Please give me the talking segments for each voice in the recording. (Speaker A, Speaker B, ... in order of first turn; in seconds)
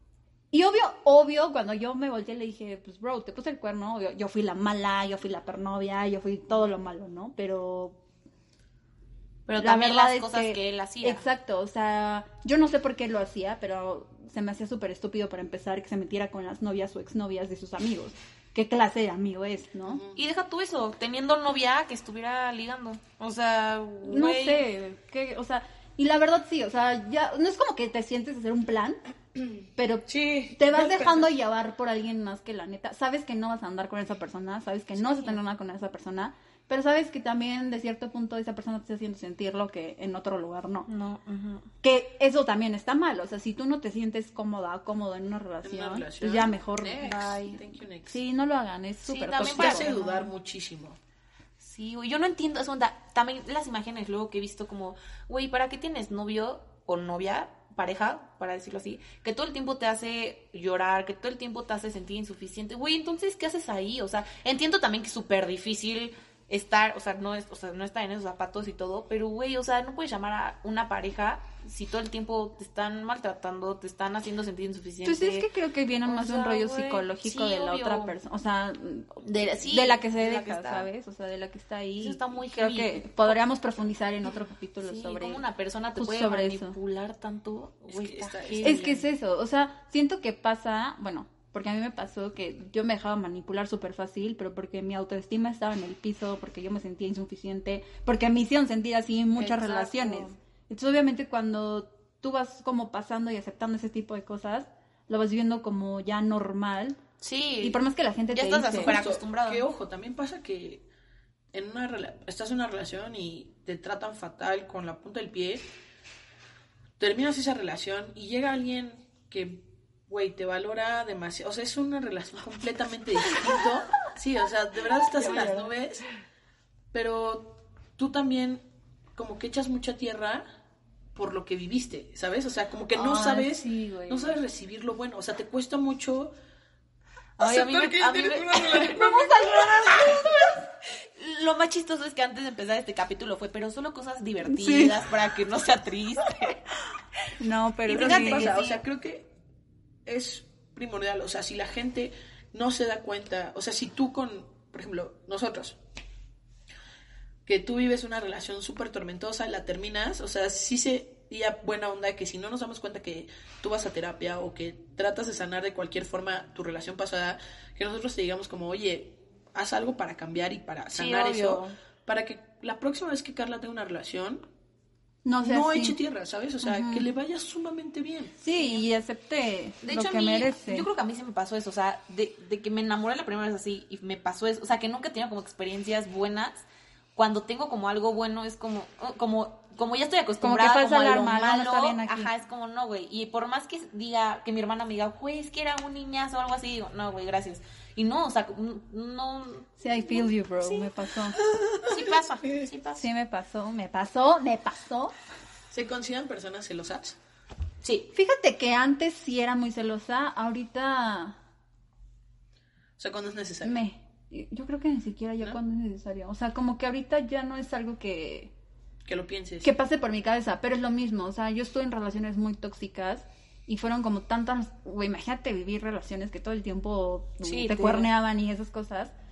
Speaker A: 0.5-8.0, 9.6-20.0, 24.0-29.0, 29.7-40.9, 41.8-47.0, 48.0-50.3, 75.0-85.4, 86.0-86.8, 88.6-107.0, 107.6-109.0, 125.2-125.7, 132.9-134.4, 144.4-145.0, 147.4-148.6, 175.2-176.0, 176.6-177.1, 178.4-180.9, 190.4-192.3, 199.8-201.4, 202.9-205.1, 208.1-211.3, 213.6-218.5, 219.6-229.1
Speaker B: 9.5-11.2, 20.1-24.6, 35.0-35.4, 40.9-41.7, 47.0-47.6, 49.0-50.0, 51.6-75.5, 76.0-78.1, 79.2-80.9, 82.0-83.4, 84.8-89.1, 99.4-100.3, 107.2-107.8, 108.3-109.7, 137.4-140.2, 141.2-146.6, 147.9-148.8, 170.9-171.7, 178.6-178.8, 179.8-200.9, 201.8-203.0, 207.8-208.1, 227.4-228.1
Speaker C: 19.9-20.2, 30.1-31.3, 45.6-48.2, 49.4-51.0, 87.9-88.8, 108.7-110.8, 111.5-115.7, 117.0-126.0, 126.9-130.4, 131.1-136.3, 137.4-140.5, 147.9-149.3, 150.1-155.8, 157.4-174.4, 175.4-178.3, 201.5-202.1, 205.7-207.2, 213.0-213.8, 219.0-219.7